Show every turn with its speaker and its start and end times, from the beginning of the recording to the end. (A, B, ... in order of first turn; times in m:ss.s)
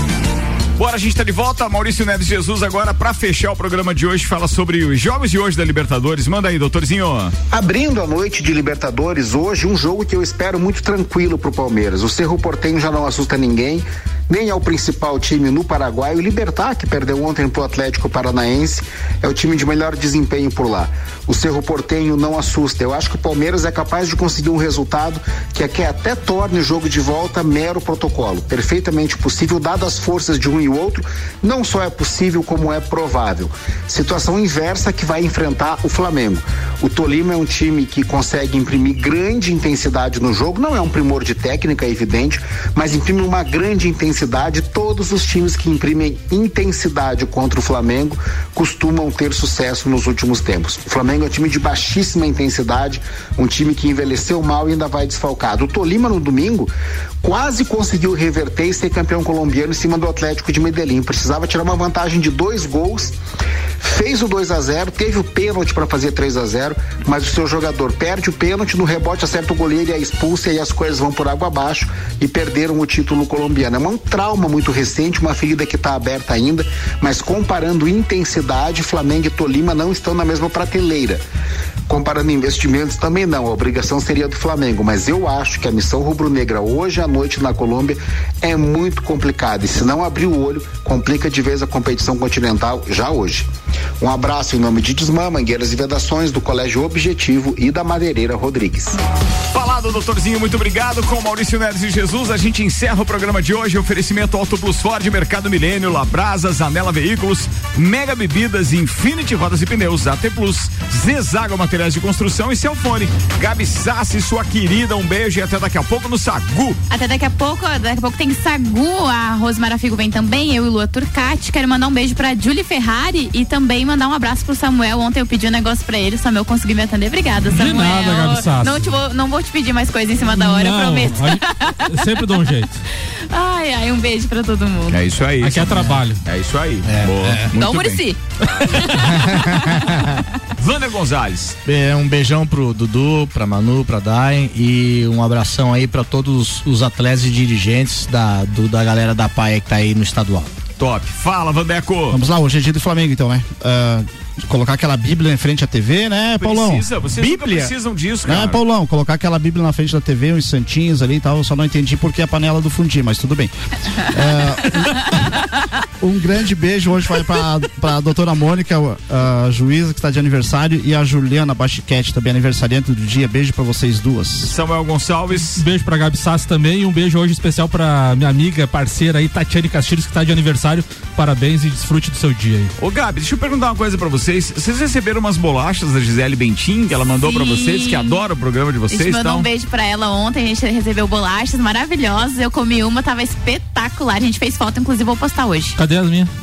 0:00.8-0:07.4 A
0:07.5-0:56.7 B
0:57.2-1:03.2 B
1:03.8-1:21.2 B
1:21.9-1:33.5 B
1:34.0-1:39.0 B
1:39.5-1:56.8 A
1:56.9-2:12.4 C
2:07.5-2:08.9 D
2:10.2-2:12.8 D
2:13.0-2:15.0 C
2:14.9-2:19.1 A
2:15.4-2:16.2 D
2:15.6-2:16.1 E
2:16.8-2:17.6 E
2:17.6-2:19.8 C
2:19.1-2:20.2 E
2:20.6-2:21.6 A
2:21.7-2:30.5 E
2:30.8-2:32.2 A
2:32.1-2:36.9 F
2:36.4-2:38.6 A
2:37.2-2:37.7 E
2:38.3-2:45.1 F
2:46.0-2:54.5 F
2:54.5-2:55.6 A
2:55.5-3:02.7 D
3:02.8-3:09.5 A
3:07.2-3:08.2 C
3:08.9-3:15.8 C
3:15.8-3:16.3 D